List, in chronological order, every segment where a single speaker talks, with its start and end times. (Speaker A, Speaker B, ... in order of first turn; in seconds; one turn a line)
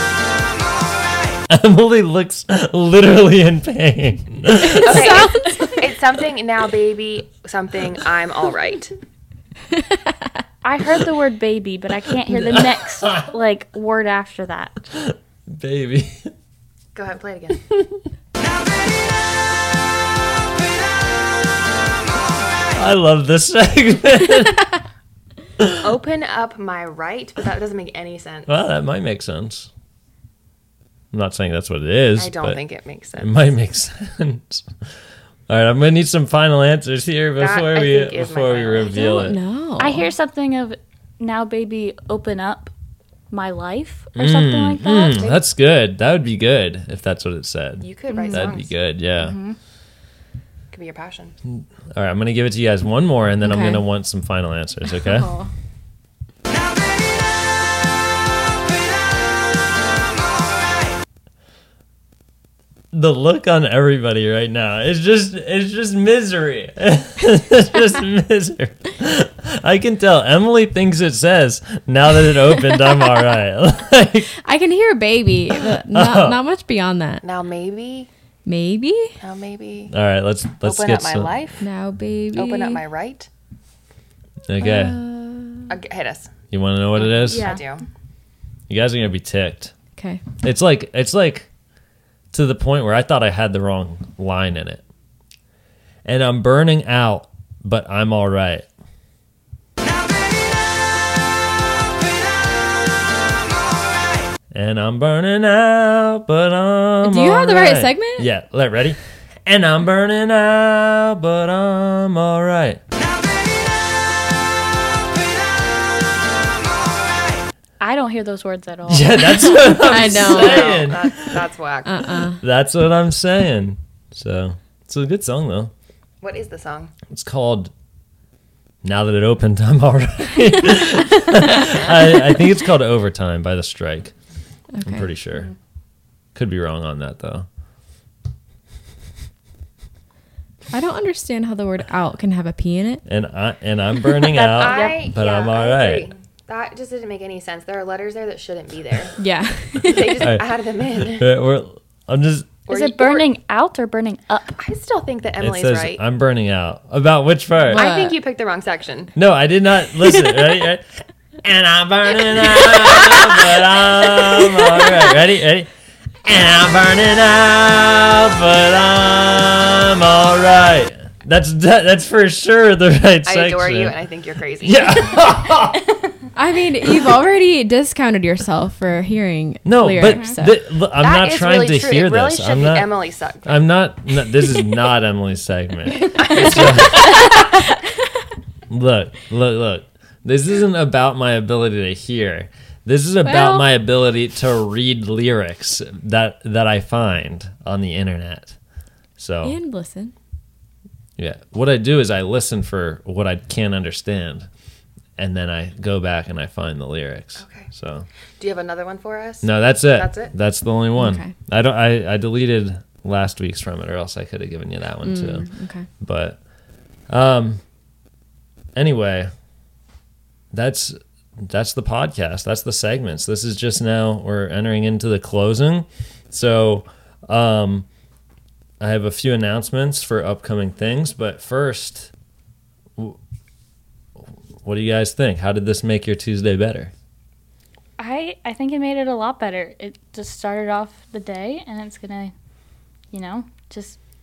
Speaker A: 1.5-5.2
Speaker B: 4.7-8.9
Speaker C: 4.8-5.4
Speaker D: 10.6-14.8
Speaker A: 12.5-13.3
Speaker A: 14.9-16.3
Speaker B: 16.9-17.6
Speaker A: 22.7-24.7
Speaker B: 25.8-28.5
Speaker A: 28.5-29.7
Speaker A: 31.1-32.6
Speaker B: 32.1-33.5
Speaker A: 33.2-34.6
Speaker A: 35.5-39.4
Speaker B: 37.4-39.3
Speaker C: 38.9-40.1
Speaker D: 39.8-42.7
Speaker D: 43.3-45.2
Speaker A: 44.1-49.4
Speaker B: 45.1-45.4
Speaker B: 47.8-48.7
Speaker D: 48.1-48.4
Speaker D: 49.2-49.6
Speaker B: 50.7-51.3
Speaker A: 51.5-55.3
Speaker C: 53.4-53.8
Speaker C: 55.0-55.4
Speaker A: 62.9-74.3
Speaker C: 74.4-77.2
Speaker A: 75.9-76.4
Speaker B: 77.2-78.1
Speaker C: 78.4-79.2
Speaker B: 79.2-79.9
Speaker A: 79.9-81.3
Speaker B: 80.6-81.6
Speaker C: 81.6-82.8
Speaker B: 82.3-83.3
Speaker A: 84.5-85.0
Speaker C: 84.6-85.8
Speaker B: 85.7-86.3
Speaker A: 86.5-87.5
Speaker B: 87.0-87.8
Speaker D: 87.2-87.6
Speaker A: 88.7-89.7
Speaker C: 90.0-90.2
Speaker A: 90.4-91.5
Speaker A: 92.3-94.8
Speaker A: 96.0-98.7
Speaker A: 104.5-112.8
Speaker C: 107.0-108.3
Speaker D: 117.8-119.8
Speaker A: 118.9-121.4
Speaker C: 119.8-120.8
Speaker B: 120.1-122.1
Speaker C: 121.8-122.4
Speaker A: 122.4-125.7
Speaker B: 126.2-126.9
Speaker A: 127.1-127.7
Speaker A: 128.8-134.1
Speaker C: 134.7-135.1
Speaker A: 134.8-135.5
Speaker A: 136.3-137.4
Speaker C: 140.7-143.0
Speaker A: 143.1-146.1
Speaker B: 144.2-149.2
Speaker D: 144.6-145.0
Speaker C: 149.2-150.3
Speaker B: 149.8-151.3
Speaker A: 150.2-150.5
Speaker A: 151.0-152.5
Speaker B: 152.7-153.3
Speaker D: 152.7-154.6
Speaker B: 154.6-156.0
Speaker A: 155.4-157.8
Speaker C: 157.7-158.1
Speaker B: 157.7-159.1
Speaker A: 159.1-165.7
Speaker A: 166.2-173.9
Speaker B: 173.2-175.2
Speaker A: 174.6-175.8
Speaker C: 176.3-180.6
Speaker A: 179.6-182.9
Speaker D: 180.1-180.4
Speaker B: 181.0-183.5
Speaker A: 183.4-187.2
Speaker B: 186.1-187.3
Speaker A: 188.7-198.6
Speaker C: 193.2-193.7
Speaker A: 199.2-199.6
Speaker C: 199.4-200.1
Speaker A: 201.2-204.5
Speaker A: 205.2-208.1
Speaker B: 207.3-207.7
Speaker B: 208.4-210.3
Speaker A: 209.4-215.5
Speaker C: 211.0-211.3
Speaker C: 215.0-215.9
Speaker A: 216.0-216.4
Speaker A: 217.1-217.6
Speaker A: 218.8-219.3
Speaker A: 220.5-227.8
Speaker A: 228.8-232.1
Speaker A: 234.6-236.9
Speaker D: 238.0-242.3
Speaker D: 243.1-244.0